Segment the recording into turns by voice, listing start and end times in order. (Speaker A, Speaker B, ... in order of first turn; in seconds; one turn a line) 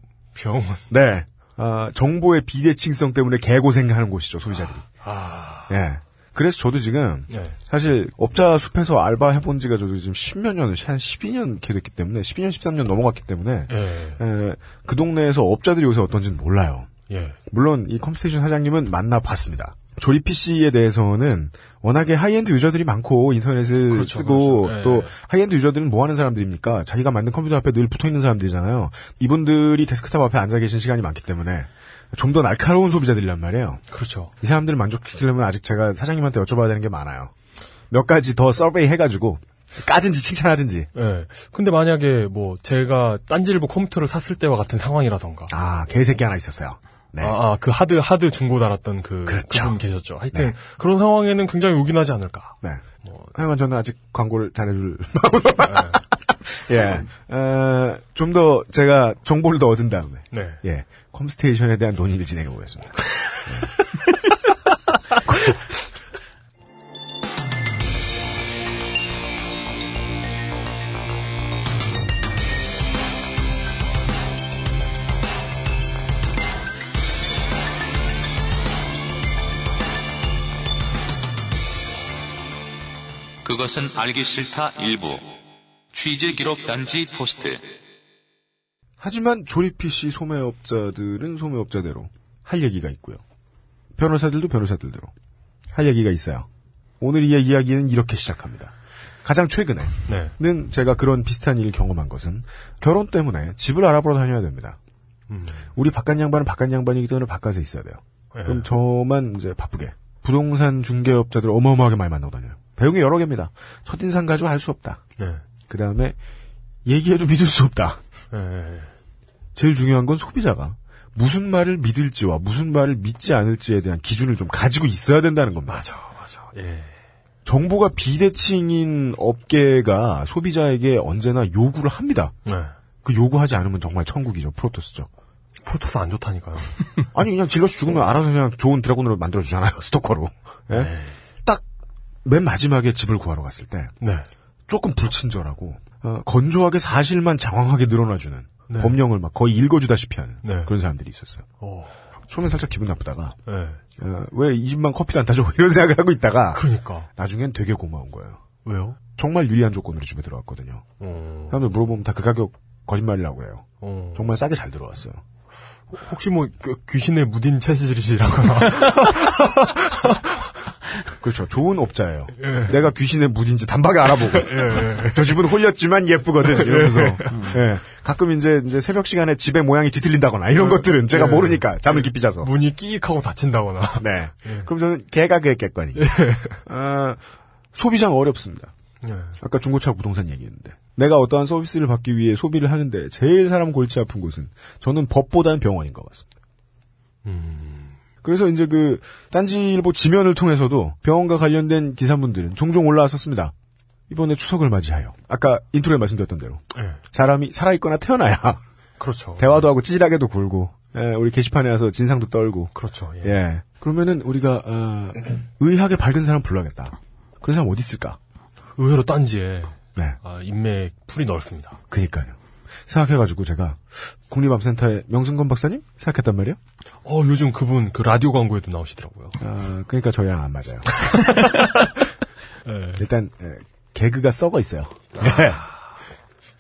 Speaker A: 0.3-0.8
Speaker B: 0.9-4.9
Speaker A: 5.0-5.8
Speaker B: 5.7-16.9
Speaker A: 7.3-7.5
Speaker A: 13.7-14.2
Speaker A: 17.1-17.4
Speaker B: 17.5-33.8
Speaker A: 23.9-25.1
Speaker A: 33.9-34.3
Speaker B: 34.4-37.3
Speaker B: 37.9-40.9
Speaker A: 40.9-45.5
Speaker B: 45.5-47.4
Speaker A: 47.2-53.3
Speaker B: 49.2-49.8
Speaker B: 52.6-63.7
Speaker A: 55.6-56.0
Speaker A: 60.3-60.6
Speaker C: 83.4-85.3
Speaker C: 85.9-87.6
Speaker B: 89.0-93.2
Speaker B: 94.0-95.1
Speaker B: 95.7-96.5
Speaker B: 97.0-104.8
Speaker A: 100.1-100.3
Speaker A: 105.3-105.6
Speaker B: 105.7-115.0
Speaker A: 108.3-108.7
Speaker B: 115.7-116.2
Speaker B: 116.8-118.0
Speaker A: 118.3-118.9
Speaker B: 119.5-125.8
Speaker A: 125.7-126.9
Speaker B: 127.4-132.3
Speaker A: 132.4-132.7
Speaker B: 133.0-135.1
Speaker A: 135.6-136.9
Speaker B: 137.1-140.9
Speaker A: 140.7-141.2
Speaker B: 142.2-143.9
Speaker A: 144.0-144.3
Speaker B: 144.7-151.4
Speaker A: 148.7-149.0
Speaker A: 150.4-150.7
Speaker A: 151.6-151.9
Speaker B: 152.3-153.4
Speaker A: 153.5-153.8
Speaker B: 154.0-156.6
Speaker A: 156.5-157.1
Speaker B: 157.2-158.4
Speaker A: 158.6-159.0
Speaker B: 159.2-160.9
Speaker A: 161.0-161.6
Speaker B: 161.5-165.2
Speaker A: 163.8-164.2
Speaker A: 165.9-170.5
Speaker B: 171.2-182.5
Speaker A: 172.4-172.8
Speaker A: 174.1-175.5
Speaker A: 176.4-177.6
Speaker A: 180.6-184.7
Speaker B: 184.0-187.2
Speaker A: 185.9-186.6
Speaker B: 187.7-188.7
Speaker A: 189.0-189.3
Speaker B: 189.4-196.2
Speaker A: 197.2-197.9
Speaker B: 198.2-203.5
Speaker B: 204.1-208.6
Speaker A: 209.0-209.6
Speaker B: 209.4-218.2
Speaker A: 212.7-213.3
Speaker A: 218.8-221.8
Speaker B: 221.9-226.6
Speaker A: 227.0-229.4
Speaker B: 229.4-231.1
Speaker A: 231.1-231.9
Speaker A: 232.6-233.0
Speaker B: 233.0-235.6
Speaker A: 235.2-235.7